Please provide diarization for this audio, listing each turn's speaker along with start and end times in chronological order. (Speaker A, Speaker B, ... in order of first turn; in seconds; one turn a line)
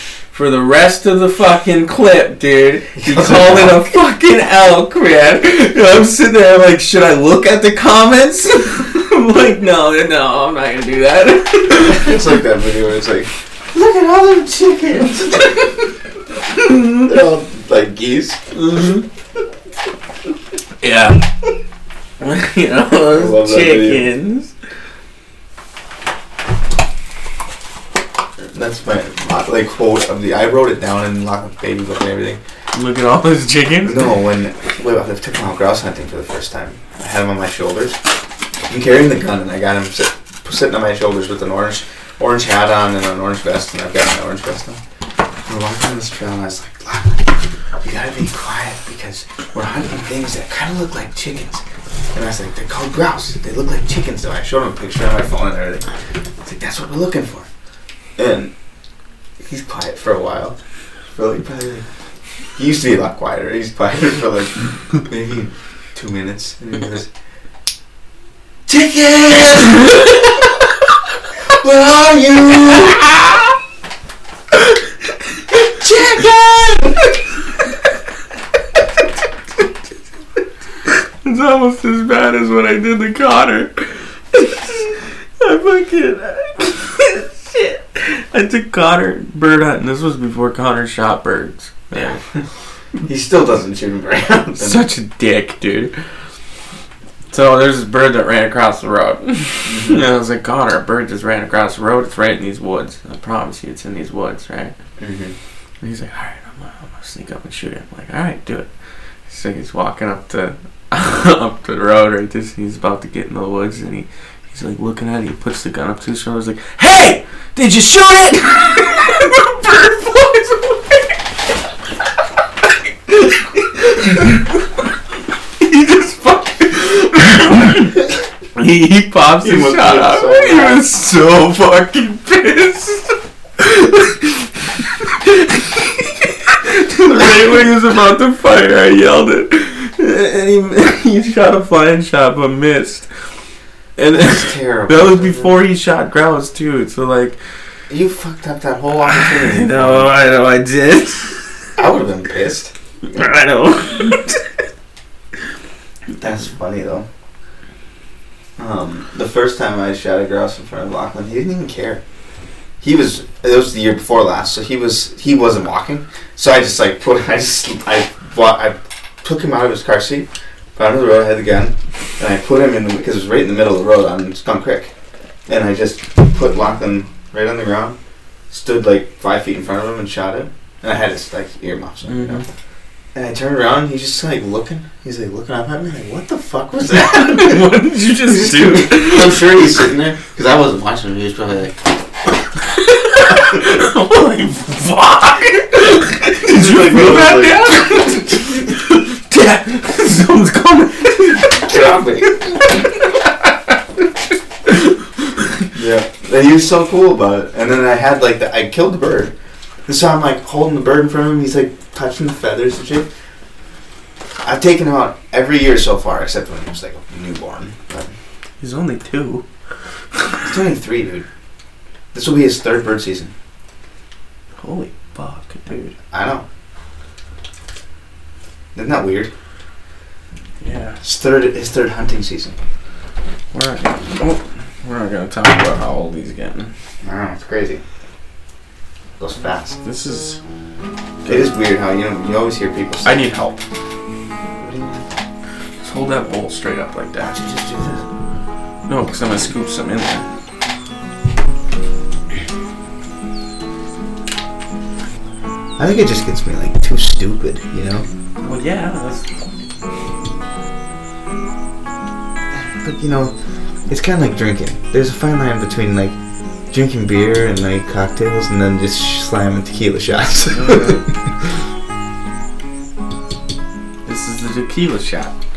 Speaker A: 0.3-12.4
Speaker B: 3.0-3.8
Speaker B: 11.7-15.7
Speaker A: 16.6-17.0
Speaker B: 16.9-18.5
Speaker A: 18.5-19.0
Speaker A: 20.8-21.2
Speaker A: 22.2-24.5
Speaker B: 23.1-24.1
Speaker B: 28.5-32.4
Speaker A: 32.7-34.1
Speaker B: 33.8-38.0
Speaker B: 38.7-44.8
Speaker B: 45.5-47.3
Speaker B: 47.8-55.9
Speaker B: 56.4-57.5
Speaker B: 58.2-58.5
Speaker B: 59.4-60.6
Speaker B: 61.1-61.8
Speaker B: 62.6-67.1
Speaker B: 68.7-70.5
Speaker B: 71.5-73.2
Speaker B: 75.8-76.9
Speaker A: 75.8-76.2
Speaker A: 80.8-92.2
Speaker B: 93.0-94.8
Speaker A: 94.6-96.0
Speaker A: 97.3-104.7
Speaker B: 99.6-100.0
Speaker B: 105.0-105.3
Speaker A: 105.8-108.7
Speaker A: 109.3-121.3
Speaker A: 123.0-124.9
Speaker A: 125.6-143.1
Speaker B: 129.4-130.8
Speaker A: 144.0-147.4
Speaker B: 144.1-145.6
Speaker B: 147.9-150.1
Speaker A: 149.1-151.7
Speaker B: 151.8-152.7
Speaker A: 153.0-154.5
Speaker B: 156.2-157.1
Speaker B: 158.6-162.0
Speaker B: 162.8-174.9
Speaker B: 175.5-178.0
Speaker B: 178.5-182.4
Speaker A: 182.1-182.4
Speaker B: 183.1-191.8
Speaker A: 186.9-189.6
Speaker A: 192.6-203.5
Speaker B: 196.4-197.8
Speaker B: 201.5-202.4
Speaker A: 204.6-205.6
Speaker B: 205.7-209.3
Speaker B: 209.9-213.1
Speaker B: 214.4-218.1
Speaker A: 218.6-219.4
Speaker B: 220.4-221.2
Speaker B: 222.1-223.3
Speaker A: 224.6-225.9
Speaker B: 226.1-226.4
Speaker B: 228.7-229.3
Speaker A: 230.6-231.0
Speaker B: 231.0-232.5
Speaker A: 233.5-236.7
Speaker B: 237.0-237.8
Speaker B: 239.2-239.8
Speaker A: 239.8-240.4
Speaker A: 241.2-241.5
Speaker B: 241.3-243.6
Speaker A: 243.0-243.4
Speaker B: 244.6-245.1
Speaker A: 245.8-247.3
Speaker B: 247.2-248.1
Speaker A: 248.9-250.2
Speaker B: 255.8-258.1
Speaker A: 258.4-259.5
Speaker B: 262.7-263.3
Speaker B: 263.9-266.2
Speaker B: 266.7-271.2
Speaker A: 270.5-271.0
Speaker A: 274.0-275.3